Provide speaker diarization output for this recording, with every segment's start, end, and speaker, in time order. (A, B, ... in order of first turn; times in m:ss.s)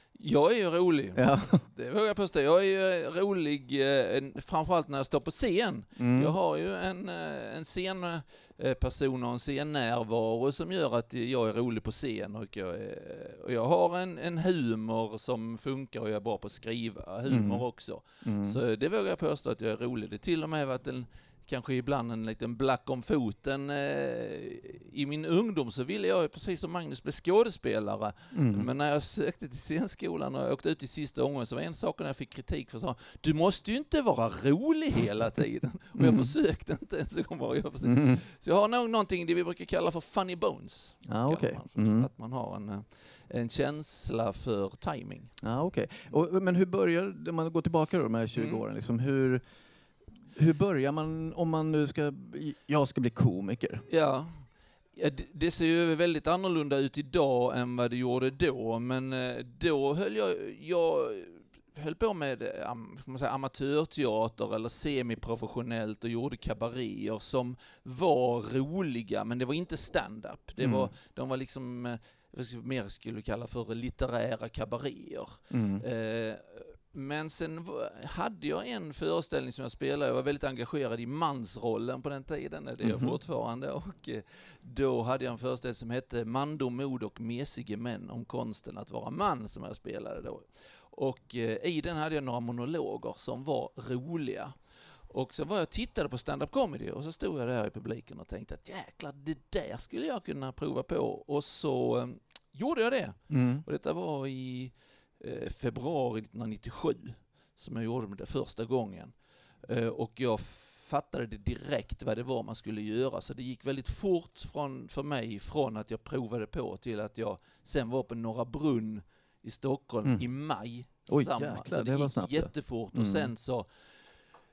0:00.2-0:45.3 A
0:01.2-0:01.6 B
0:06.0-0:06.3 B
0:17.3-0:17.6 B
0:18.2-0:18.6 B
0:28.3-0:28.7 B
0:36.0-0:36.3 B
0:37.8-0:38.2 B
0:41.1-0:42.1 B
0:45.4-0:49.4 B
0:48.4-0:48.6 A
0:50.4-0:53.9 B
0:53.9-2:03.7 A
1:10.6-1:10.9 B
1:15.5-1:15.8 B
1:22.8-1:23.2 B
1:43.3-1:43.6 B
2:01.1-2:03.3 B